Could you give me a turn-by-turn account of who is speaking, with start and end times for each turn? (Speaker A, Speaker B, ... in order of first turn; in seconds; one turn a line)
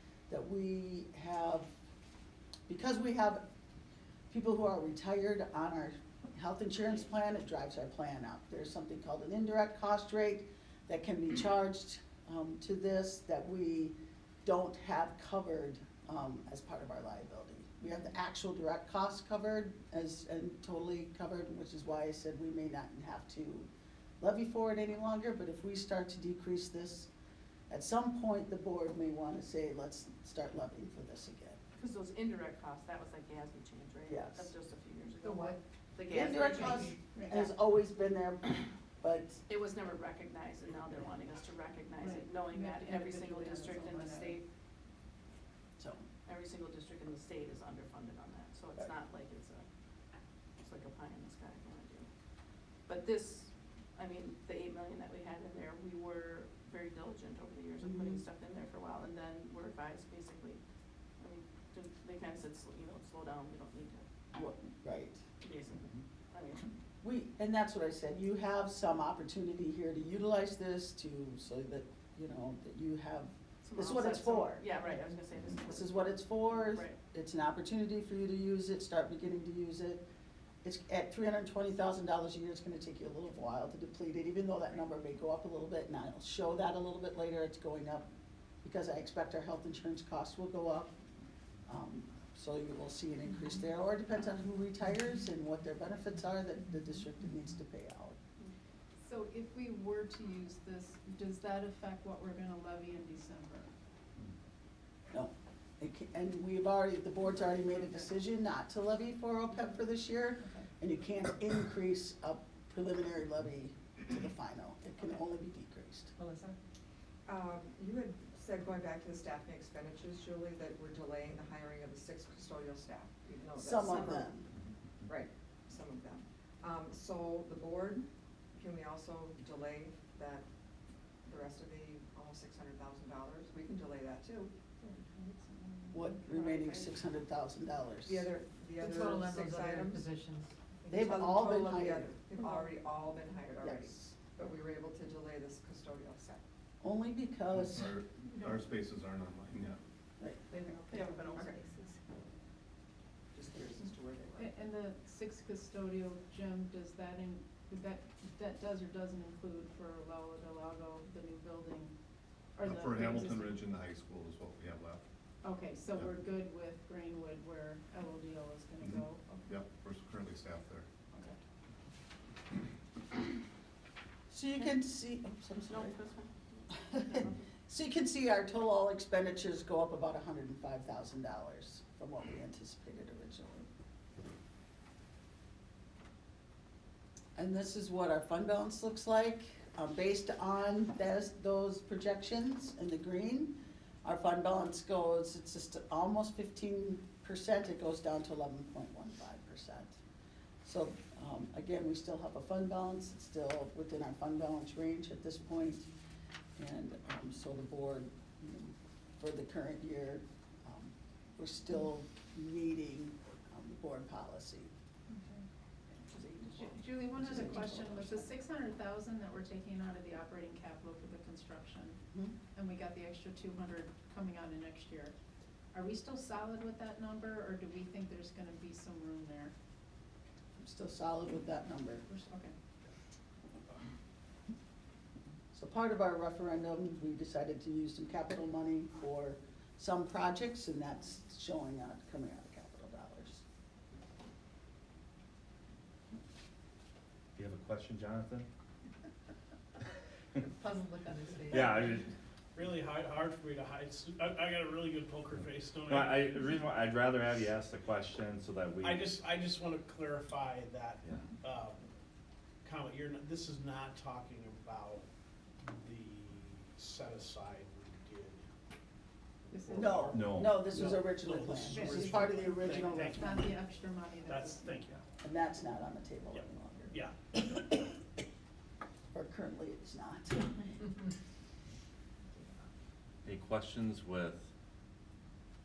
Speaker A: 0.3-1.7
Speaker A: 2.7-3.5
Speaker A: 4.3-23.7
Speaker A: 24.2-27.1
Speaker A: 27.7-31.6
Speaker B: 31.8-37.5
Speaker A: 34.1-34.5
Speaker C: 35.2-35.6
Speaker A: 36.1-39.4
Speaker C: 37.1-37.5
Speaker B: 39.5-44.5
Speaker C: 42.0-44.4
Speaker A: 45.8-46.0
Speaker B: 46.3-49.7
Speaker B: 50.6-52.1
Speaker B: 52.9-60.6
Speaker A: 57.8-58.2
Speaker B: 61.2-64.0
Speaker A: 64.3-65.2
Speaker B: 65.4-66.7
Speaker A: 67.0-74.6
Speaker B: 73.6-77.0
Speaker A: 75.7-80.0
Speaker A: 80.6-88.1
Speaker A: 88.6-91.0
Speaker A: 91.7-98.2
Speaker C: 99.0-103.7
Speaker A: 105.1-116.1
Speaker D: 116.2-116.6
Speaker E: 117.3-124.3
Speaker A: 123.6-124.5
Speaker E: 125.1-130.5
Speaker E: 131.2-134.5
Speaker D: 135.2-135.9
Speaker A: 135.9-138.3
Speaker E: 138.1-140.1
Speaker D: 138.8-141.4
Speaker E: 140.9-146.4
Speaker A: 140.9-142.1
Speaker A: 143.6-144.2
Speaker A: 146.8-147.9
Speaker F: 147.6-149.8
Speaker D: 150.5-151.9
Speaker B: 150.9-151.4
Speaker E: 151.3-151.6
Speaker E: 153.3-154.5
Speaker C: 154.4-161.9
Speaker C: 162.6-163.6
Speaker F: 162.6-165.0
Speaker C: 165.4-169.5
Speaker F: 168.8-170.9
Speaker A: 174.3-176.0
Speaker B: 175.7-177.4
Speaker A: 176.7-183.7
Speaker A: 187.4-200.0
Speaker A: 200.6-205.9
Speaker A: 206.6-214.7
Speaker C: 215.1-215.5
Speaker B: 216.1-218.2
Speaker C: 216.6-222.0
Speaker A: 217.2-218.1
Speaker C: 222.5-225.1
Speaker C: 225.7-229.5
Speaker A: 230.6-232.1
Speaker C: 232.1-232.6
Speaker A: 235.5-243.4
Speaker G: 247.4-248.5
Speaker D: 250.5-252.0
Speaker G: 251.5-252.1
Speaker H: 252.6-256.2
Speaker G: 255.9-259.1
Speaker H: 258.8-261.8
Speaker H: 262.6-265.1
Speaker H: 265.7-268.5
Speaker C: 269.5-270.1
Speaker H: 269.5-273.6
Speaker A: 269.7-273.4
Speaker G: 270.1-270.8
Speaker C: 271.6-272.2
Speaker C: 272.8-274.9
Speaker H: 274.3-275.0
Speaker A: 275.2-278.0
Speaker H: 276.3-277.1
Speaker A: 279.1-280.9
Speaker G: 283.2-284.5